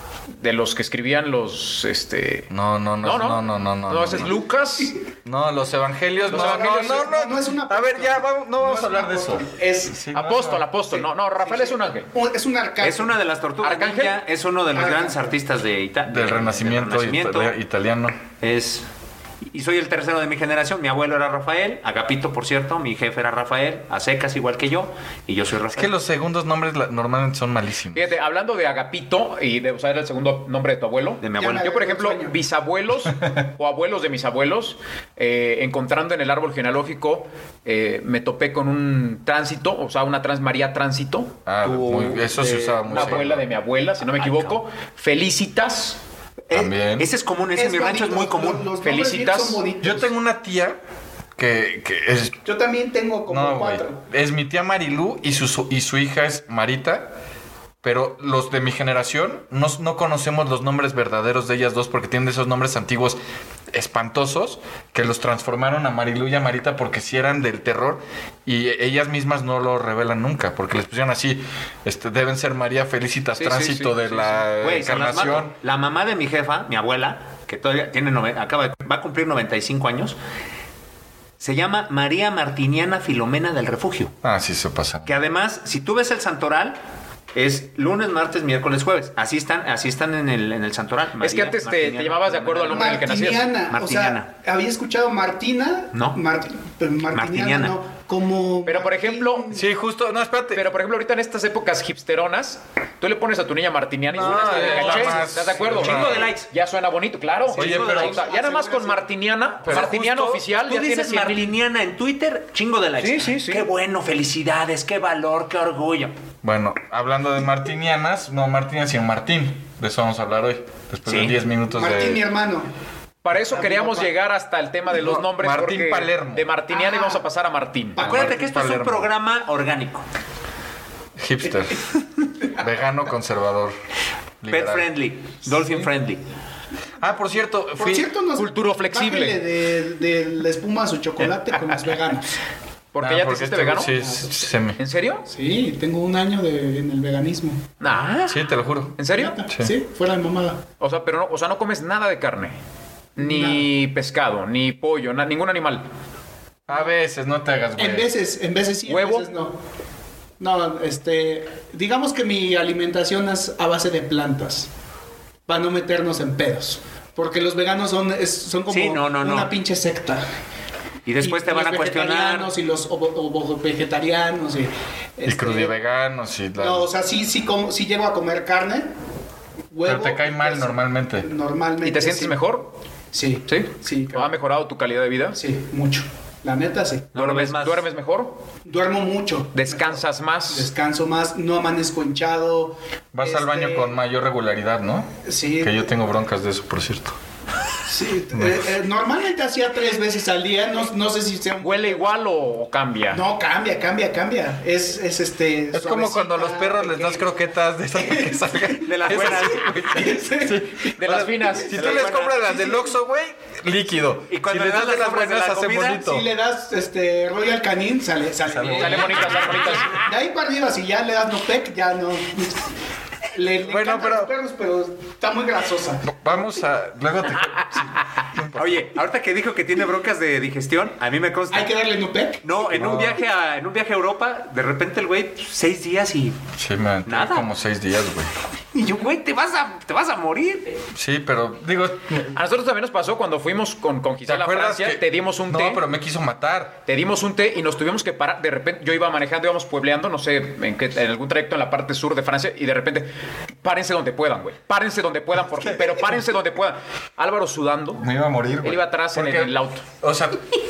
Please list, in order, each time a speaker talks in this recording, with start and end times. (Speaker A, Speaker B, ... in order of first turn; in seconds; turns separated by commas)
Speaker A: 0.4-2.5, Speaker B: 2.5-4.3, Speaker A: 3.0-5.0, Speaker B: 5.2-10.7, Speaker C: 6.2-10.0, Speaker A: 6.3-7.0, Speaker A: 10.1-12.1, Speaker C: 10.9-13.2, Speaker D: 12.8-17.5, Speaker A: 13.6-14.2, Speaker C: 14.7-15.2, Speaker B: 16.1-18.2, Speaker D: 18.4-18.9, Speaker D: 19.5-25.9, Speaker B: 25.7-28.1, Speaker A: 27.9-41.3, Speaker D: 31.2-31.7, Speaker C: 31.4-32.4, Speaker B: 41.5-43.4, Speaker D: 41.6-43.2, Speaker A: 42.8-46.0, Speaker D: 44.2-44.6, Speaker D: 46.5-48.7, Speaker B: 46.5-47.1, Speaker C: 47.5-50.1, Speaker A: 48.8-49.6, Speaker B: 49.8-50.8, Speaker B: 51.4-52.4, Speaker C: 52.5-54.0, Speaker B: 53.3-57.1, Speaker B: 57.8-63.2, Speaker B: 63.7-75.6, Speaker A: 73.4-74.4, Speaker D: 74.6-80.2, Speaker D: 81.4-84.1, Speaker B: 84.2-85.1, Speaker D: 85.1-86.8, Speaker D: 87.3-93.1, Speaker A: 91.2-93.5, Speaker C: 92.7-99.7, Speaker D: 93.7-94.3, Speaker D: 95.9-96.2, Speaker D: 97.1-97.8, Speaker A: 98.7-99.5, Speaker B: 99.5-100.7, Speaker A: 100.5-111.6, Speaker B: 104.1-106.3, Speaker D: 104.5-106.5, Speaker D: 107.6-108.0, Speaker B: 107.6-108.2, Speaker C: 107.6-109.0, Speaker B: 109.6-110.4, Speaker D: 110.7-116.2, Speaker A: 113.0-113.7, Speaker B: 116.4-122.2, Speaker D: 121.1-121.4, Speaker C: 121.7-122.7, Speaker A: 123.2-128.1, Speaker C: 123.3-124.1, Speaker B: 124.9-126.5, Speaker C: 126.7-127.2, Speaker D: 128.0-130.1, Speaker C: 128.0-128.3, Speaker B: 128.0-129.1, Speaker B: 131.2-131.9, Speaker B: 132.5-133.8, Speaker B: 134.4-134.9, Speaker D: 134.5-136.2, Speaker B: 137.0-138.1, Speaker C: 137.8-142.3, Speaker A: 138.4-139.4, Speaker A: 142.9-144.0, Speaker B: 143.0-144.8, Speaker C: 143.8-144.4, Speaker A: 144.8-145.2, Speaker C: 145.3-147.6, Speaker A: 147.8-149.4, Speaker B: 148.3-149.0, Speaker C: 149.1-150.6, Speaker B: 149.5-149.8, Speaker A: 150.8-152.6, Speaker C: 153.2-153.7, Speaker A: 153.2-155.8, Speaker B: 156.7-158.1, Speaker C: 157.8-159.6, Speaker A: 158.9-159.3, Speaker C: 160.4-164.7, Speaker C: 165.5-170.2, Speaker D: 168.7-169.5, Speaker D: 171.1-172.5, Speaker C: 171.2-175.7, Speaker B: 175.2-176.9, Speaker C: 176.6-178.9, Speaker C: 179.7-182.4, Speaker B: 179.8-181.3, Speaker A: 181.8-182.7, Speaker C: 183.1-184.3, Speaker A: 183.5-185.4, Speaker C: 185.4-187.1, Speaker D: 187.1-187.8, Speaker A: 187.2-188.4, Speaker C: 188.7-193.9, Speaker A: 189.5-190.7, Speaker B: 193.1-197.2, Speaker C: 195.2-195.9, Speaker C: 197.9-202.0, Speaker B: 198.3-198.7, Speaker A: 201.6-203.2, Speaker C: 203.1-207.3, Speaker B: 205.7-216.3, Speaker C: 208.0-210.7, Speaker D: 208.8-210.2, Speaker A: 211.0-211.8, Speaker C: 211.5-212.9, Speaker D: 211.7-212.5, Speaker D: 214.3-216.0, Speaker C: 216.0-222.7, Speaker B: 218.4-219.4, Speaker A: 218.8-220.0, Speaker C: 223.3-226.1, Speaker B: 223.6-224.3, Speaker B: 226.1-228.9, Speaker D: 228.6-231.7, Speaker C: 231.5-232.4, Speaker D: 232.4-236.4, Speaker B: 232.7-233.2, Speaker B: 236.6-238.3, Speaker D: 237.1-237.5, Speaker D: 238.7-240.8, Speaker B: 240.9-242.3, Speaker A: 242.3-245.8, Speaker B: 244.2-246.8, Speaker A: 246.9-253.1, Speaker A: 253.6-258.0, Speaker B: 258.0-260.5, Speaker A: 258.6-259.9